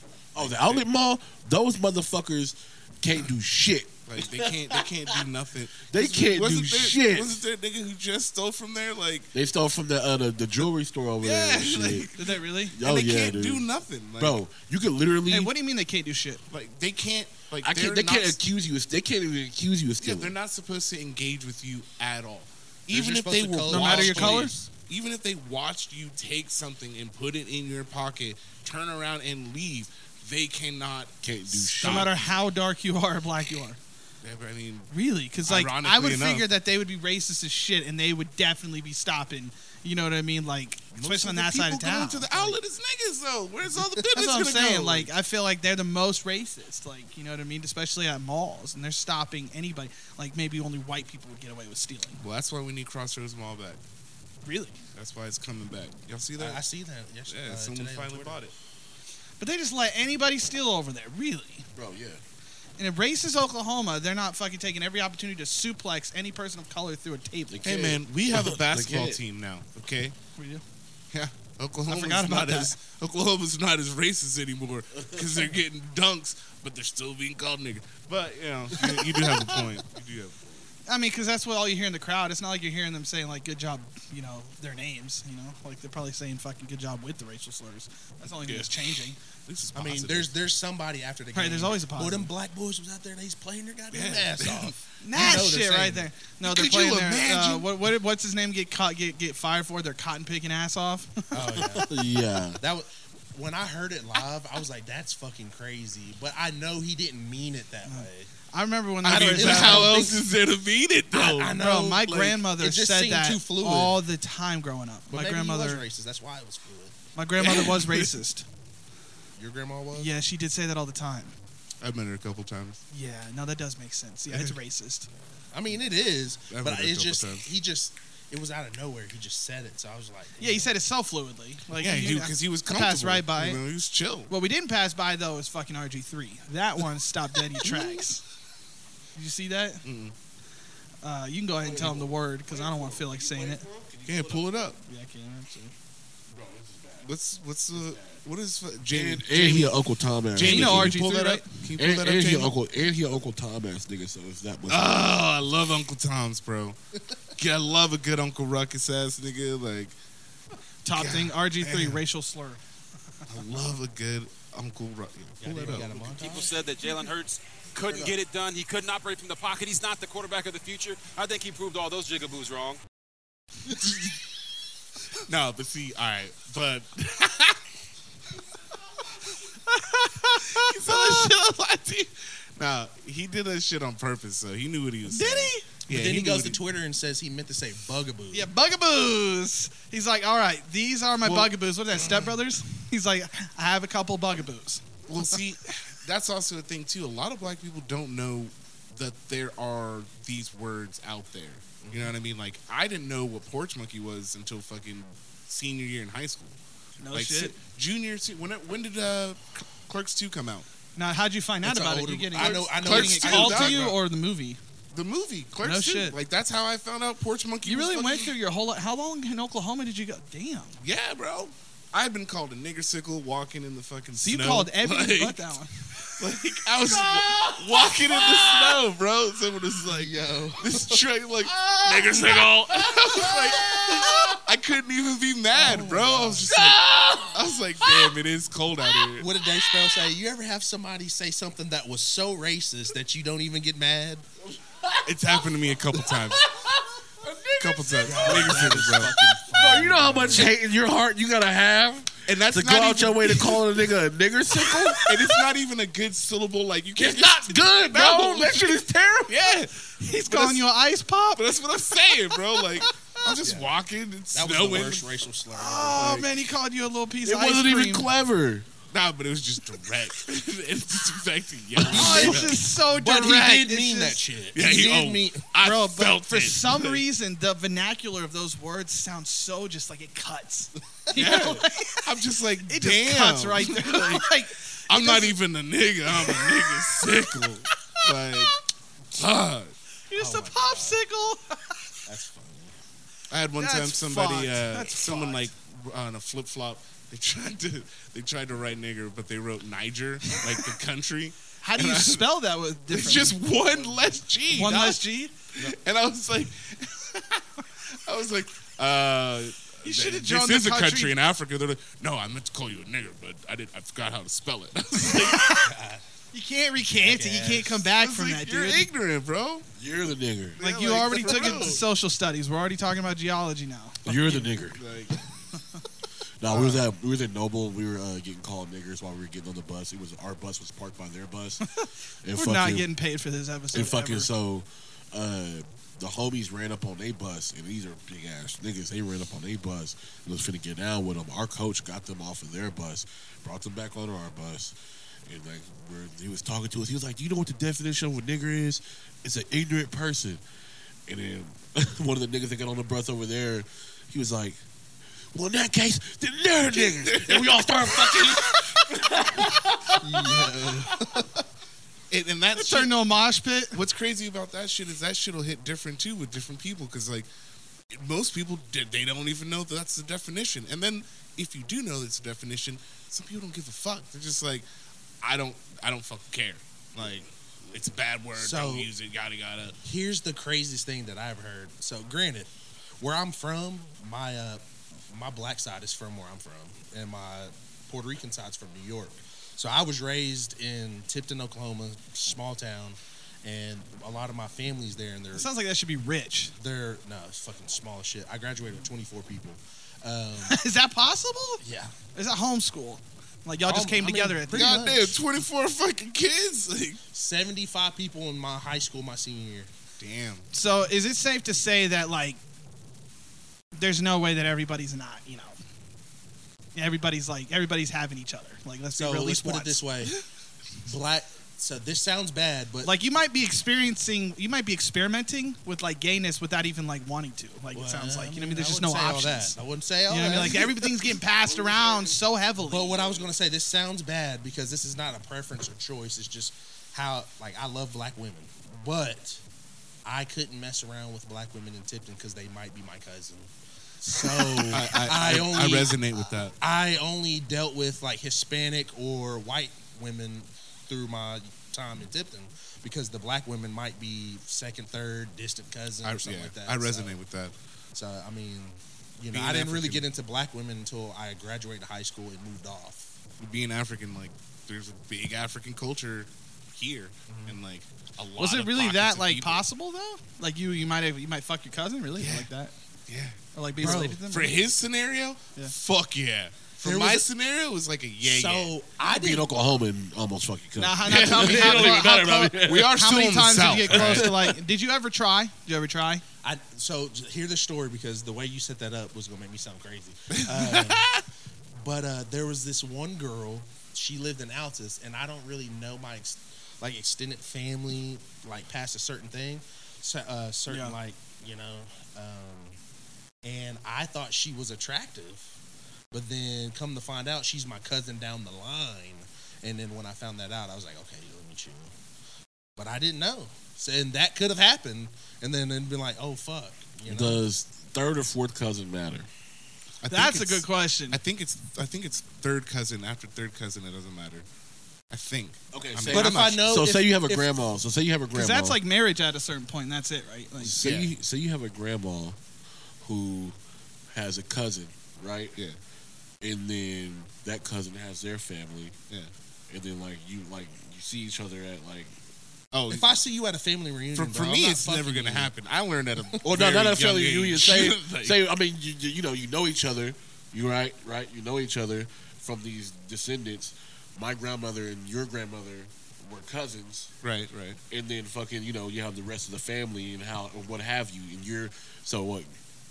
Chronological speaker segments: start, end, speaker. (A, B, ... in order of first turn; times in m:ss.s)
0:00.3-0:00.8 A
0:00.3-0:04.8 B
0:04.1-0:09.3 A
0:05.9-0:07.4 B
0:09.3-0:12.1 B
0:11.2-0:14.4 A
0:12.2-0:12.8 C
0:12.7-0:13.6 B
0:14.2-0:15.5 B
0:15.3-0:16.4 C
0:16.5-0:18.4 A
0:17.6-0:20.3 B
0:20.0-0:32.3 A
0:22.9-0:24.6 D
0:23.7-0:24.5 C
0:31.2-0:32.3 B
0:31.8-0:33.8 C
0:34.2-0:34.9 A
0:34.9-0:42.5 C
0:35.4-0:36.5 A
0:40.9-0:45.1 A
0:44.1-0:52.2 C
0:52.2-0:53.8 A
0:54.4-0:54.8 C
0:54.9-0:56.6 A
0:56.4-0:58.4 D
0:57.3-0:58.5 A
0:59.4-1:01.6 C
1:01.8-1:02.2 B
1:02.8-1:07.6 C
1:07.5-1:09.2 B
1:07.6-1:10.1 A
1:10.4-1:10.6 C
1:11.1-1:20.4 A
1:11.9-1:12.8 C
1:20.9-1:29.2 C
1:28.4-1:30.3 A
1:29.7-1:36.1 D
1:31.3-1:32.3 C
1:33.9-1:34.8 A
1:35.0-1:41.6 C
1:36.4-1:37.7 A
1:41.3-1:41.9 D
1:41.8-1:42.6 B
1:42.6-1:48.3 D
1:47.8-1:50.0 C
1:49.0-1:51.6 A
1:49.0-1:50.3 D
1:51.1-1:54.0 D
1:51.5-1:55.8 C
1:55.1-1:57.0 D
1:57.2-1:58.4 C
1:57.4-1:58.1 A
1:59.4-2:00.1 D
1:59.9-2:01.3 C
2:01.8-2:02.8 A
2:02.9-2:05.1 C
2:04.3-2:04.6 A
2:05.5-2:10.7 D
2:06.5-2:07.5 A
2:10.4-2:13.6 C
2:11.8-2:14.3 A
2:14.3-2:18.2 C
2:19.1-2:19.8 C
2:19.8-2:20.1 A
2:21.0-2:23.6 C
2:21.6-2:24.5 B
2:24.0-2:24.8 A
2:24.9-2:25.7 C
2:26.3-2:27.1 B
2:27.0-2:32.5 A
2:27.7-2:28.2 B
2:28.9-2:31.0 B
2:30.4-2:31.5 C
2:31.8-2:35.0 B
2:34.7-2:36.8 A
2:37.4-2:39.9 A
2:40.8-2:42.6 C
2:41.0-2:42.0 A
2:43.3-2:46.0 A
2:45.4-2:46.6 D
2:46.1-2:52.8 E
2:53.7-2:54.1 A
2:55.2-2:57.6 A
2:59.7-3:01.3 C
3:00.5-3:06.6 A
3:05.1-3:05.6 C
3:05.9-3:08.5 D
3:08.3-3:14.8 C
3:11.2-3:12.1 A
3:15.1-3:26.6 A
3:21.8-3:22.1 D
3:27.0-3:27.5 C
3:27.1-3:30.7 A
3:31.0-3:34.6 C
3:31.6-3:33.9 D
3:32.4-3:34.0 A
3:34.9-3:38.3 A
3:35.6-3:36.2 C
3:37.6-3:40.8 C
3:40.8-3:45.5 A
3:44.2-3:46.2 C
3:46.2-3:56.8 A
3:46.9-3:48.8 B
3:49.9-3:50.9 D
3:51.5-3:54.4 B
3:55.5-3:56.5 D
3:56.5-3:58.0 B
3:57.3-3:59.3 A
3:59.2-4:04.2 D
4:04.6-4:15.1 B
4:05.0-4:06.4 A
4:07.6-4:09.1 A
4:08.0-4:10.5 D
4:12.3-4:13.7 A
4:15.0-4:20.6 A
4:17.0-4:19.5 B
4:20.0-4:21.4 C
4:21.4-4:25.0 A
4:23.4-4:23.7 D
4:24.3-4:26.2 D
4:25.5-4:28.1 C
4:26.0-4:26.2 A
4:27.2-4:28.7 B
4:28.9-4:32.6 A
4:31.8-4:35.4 D
4:31.9-4:34.2 C
4:34.5-4:37.0 A
4:35.6-4:42.0 C
4:41.1-4:44.3 A
4:42.7-4:45.3 C
4:44.9-4:48.6 A
4:46.1-4:47.0 C
4:49.1-4:49.7 A
4:50.1-4:51.6 C
4:50.1-4:51.0 D
4:52.0-4:52.8 D
4:53.3-5:02.2 A
4:53.6-4:55.5 C
5:01.6-5:03.4 C
5:02.9-5:05.0 A
5:04.5-5:05.3 C
5:05.6-5:15.6 A
5:09.8-5:11.1 C
5:15.0-5:15.7 C
5:15.4-5:16.0 D
5:16.3-5:18.8 C
5:16.8-5:17.9 D
5:18.0-5:19.6 A
5:19.8-5:21.3 B
5:20.6-5:21.8 A
5:20.6-5:24.5 C
5:24.0-5:24.8 B
5:24.7-5:25.2 A
5:26.4-5:32.9 B
5:32.3-5:34.3 C
5:33.7-5:50.4 B
5:51.1-5:54.6 B
5:55.3-6:00.9 B
5:56.7-5:57.6 A
6:00.0-6:01.4 D
6:02.1-6:03.0 A
6:02.6-6:03.8 C
6:03.7-6:07.3 A
6:07.9-6:14.6 A
6:15.2-6:19.8 A
6:18.4-6:18.9 D
6:19.8-6:35.5 D
6:35.3-6:36.5 C
6:36.6-6:40.6 D
6:40.5-6:41.6 C
6:41.6-6:42.0 D
6:42.1-6:44.8 C
6:43.6-6:45.2 D
6:44.5-6:47.0 A
6:47.1-6:49.7 D
6:50.0-6:50.5 A
6:50.5-6:52.4 C
6:53.8-6:55.6 C
6:56.8-6:59.8 C
6:58.9-7:00.1 D
7:00.8-7:03.0 D
7:02.8-7:09.5 C
7:07.7-7:11.1 D
7:10.1-7:13.0 C
7:11.5-7:12.1 B
7:12.6-7:19.4 D
7:20.0-7:26.0 D
7:24.7-7:26.6 A
7:26.6-7:37.2 D
7:36.0-7:37.5 A
7:37.9-7:43.1 D
7:39.3-7:40.0 A
7:43.4-7:49.6 A
7:47.3-7:47.6 D
7:48.4-7:52.7 C
7:52.2-7:52.5 A
7:53.1-7:58.7 A
7:53.5-7:54.6 C
7:53.8-7:54.2 D
7:56.8-7:57.3 D
7:58.2-7:59.5 D
7:59.0-8:02.9 B
8:00.8-8:06.2 C
8:01.1-8:02.0 A
8:02.6-8:04.3 A
8:03.8-8:04.5 B
8:06.4-8:11.2 D
8:10.3-8:11.2 A
8:11.8-8:22.8 D
8:20.7-8:20.9 C
8:23.4-8:25.5 D
8:26.1-8:31.9 D
8:32.8-8:37.4 D
8:37.1-8:39.3 B
8:40.0-8:44.4 A
8:40.1-8:41.2 C
8:45.1-8:46.6 A
8:45.7-8:48.8 B
8:46.1-8:47.5 D
8:48.3-8:50.8 C
8:50.6-8:52.4 B
8:50.8-8:51.1 A
8:53.0-8:53.6 B
8:54.1-8:55.6 B
8:56.4-8:59.0 B
8:59.7-9:02.1 B
9:02.7-9:03.0 A
9:02.9-9:05.5 D
9:04.1-9:08.4 A
9:06.4-9:17.1 B
9:17.2-9:17.8 A
9:17.9-9:22.5 B